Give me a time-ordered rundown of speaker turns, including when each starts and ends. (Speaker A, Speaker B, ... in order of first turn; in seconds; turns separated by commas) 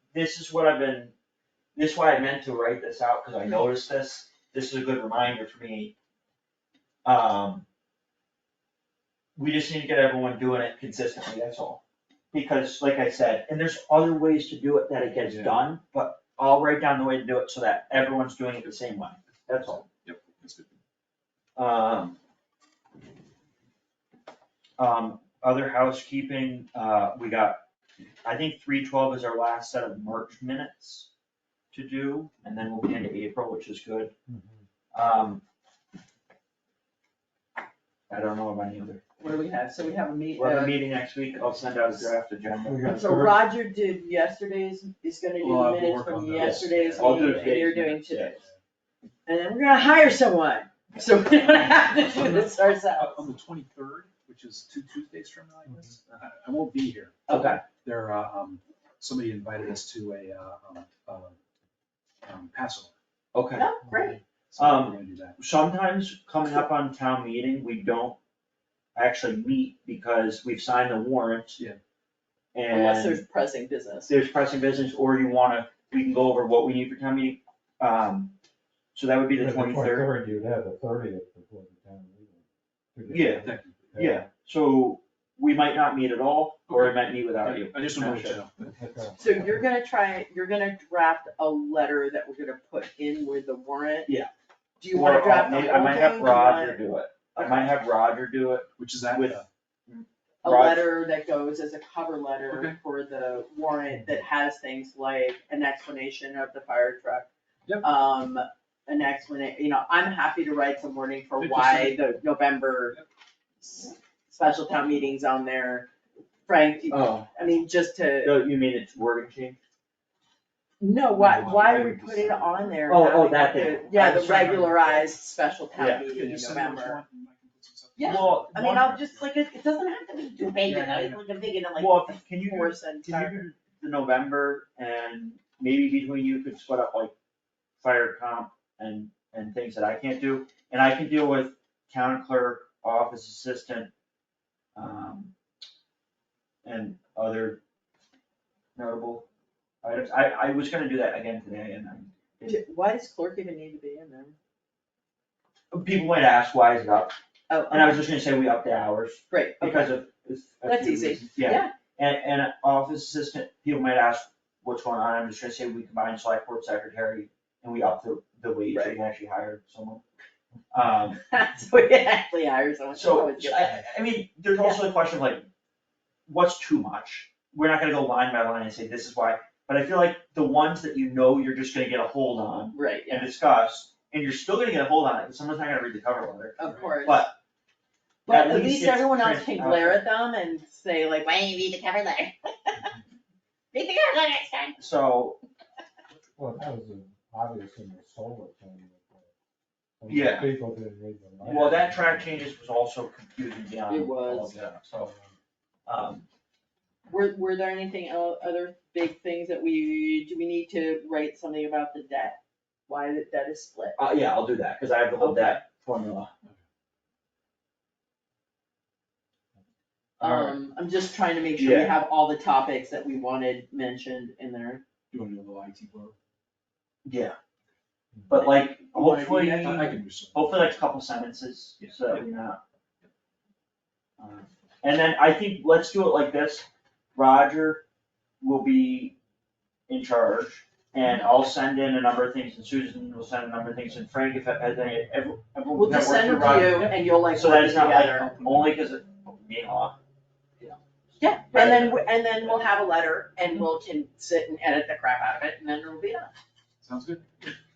Speaker A: 0.1-1.1, Speaker A: 1.8-5.9, Speaker A: 7.0-7.7, Speaker A: 9.4-19.8, Speaker B: 15.2-15.6, Speaker B: 19.7-20.7, Speaker A: 21.6-22.2, Speaker A: 24.8-27.6, Speaker A: 28.2-31.1, Speaker A: 31.7-34.1, Speaker C: 34.3-34.6, Speaker A: 34.9-35.4, Speaker A: 38.1-39.0, Speaker D: 39.2-40.8, Speaker A: 40.4-42.9, Speaker C: 42.6-43.4, Speaker D: 42.9-48.4, Speaker B: 45.4-48.5, Speaker A: 46.4-48.4, Speaker D: 49.2-53.2, Speaker B: 51.7-57.2, Speaker D: 57.3-57.6, Speaker A: 57.3-57.6, Speaker B: 57.8-61.4, Speaker B: 62.2-62.9, Speaker A: 63.3-63.7, Speaker D: 63.5-64.2, Speaker C: 63.9-64.2, Speaker B: 64.5-65.4, Speaker A: 64.6-68.2, Speaker A: 68.9-71.6, Speaker A: 72.5-73.2, Speaker D: 72.7-74.1, Speaker A: 74.1-78.3, Speaker A: 78.9-80.1, Speaker C: 79.4-84.3, Speaker A: 83.1-88.4, Speaker B: 83.3-83.9, Speaker B: 86.7-88.8, Speaker C: 88.8-89.4, Speaker D: 89.2-94.1, Speaker D: 94.8-96.8, Speaker A: 94.9-100.8, Speaker D: 97.3-97.7, Speaker B: 98.8-99.5, Speaker D: 100.4-107.3, Speaker B: 102.5-102.8, Speaker D: 107.8-112.9, Speaker B: 111.4-112.1, Speaker D: 113.6-115.9, Speaker D: 116.5-118.4, Speaker A: 116.9-117.3, Speaker A: 118.2-119.6, Speaker D: 120.8-127.0, Speaker B: 121.1-122.8, Speaker A: 122.8-124.7, Speaker B: 123.9-125.1, Speaker A: 125.8-126.0, Speaker B: 126.0-129.3, Speaker D: 128.0-133.5, Speaker A: 128.0-129.0, Speaker B: 130.6-131.2, Speaker A: 131.8-137.1, Speaker A: 137.8-143.9, Speaker A: 144.8-145.3, Speaker A: 146.7-147.6, Speaker A: 148.8-149.3, Speaker A: 149.8-152.6, Speaker D: 152.4-154.3, Speaker A: 155.7-157.2, Speaker D: 157.5-158.1, Speaker A: 157.7-170.0, Speaker D: 159.3-160.0, Speaker D: 160.6-161.7, Speaker A: 170.7-171.2, Speaker D: 171.2-173.8, Speaker A: 172.9-175.5, Speaker A: 176.3-187.3, Speaker D: 182.7-183.3, Speaker D: 186.6-187.3, Speaker D: 188.3-192.4, Speaker A: 188.3-190.0, Speaker D: 193.7-194.8, Speaker A: 194.8-195.4, Speaker C: 196.4-199.3, Speaker C: 200.0-202.4, Speaker A: 200.1-200.5, Speaker B: 201.4-201.8, Speaker A: 201.4-205.1, Speaker D: 203.9-204.6, Speaker A: 205.9-206.3, Speaker D: 207.1-214.0, Speaker A: 214.0-216.3, Speaker D: 215.2-215.6, Speaker A: 220.2-220.6, Speaker D: 220.2-224.8, Speaker A: 221.6-222.0, Speaker B: 225.1-226.2, Speaker A: 227.1-227.4, Speaker A: 228.3-232.6, Speaker B: 228.3-230.8, Speaker B: 231.8-232.3, Speaker A: 234.2-237.8, Speaker A: 238.4-239.2, Speaker A: 239.9-249.9, Speaker D: 245.7-248.3, Speaker B: 246.4-247.0, Speaker B: 248.0-248.4, Speaker D: 251.2-256.3, Speaker A: 251.5-252.0, Speaker B: 256.8-257.2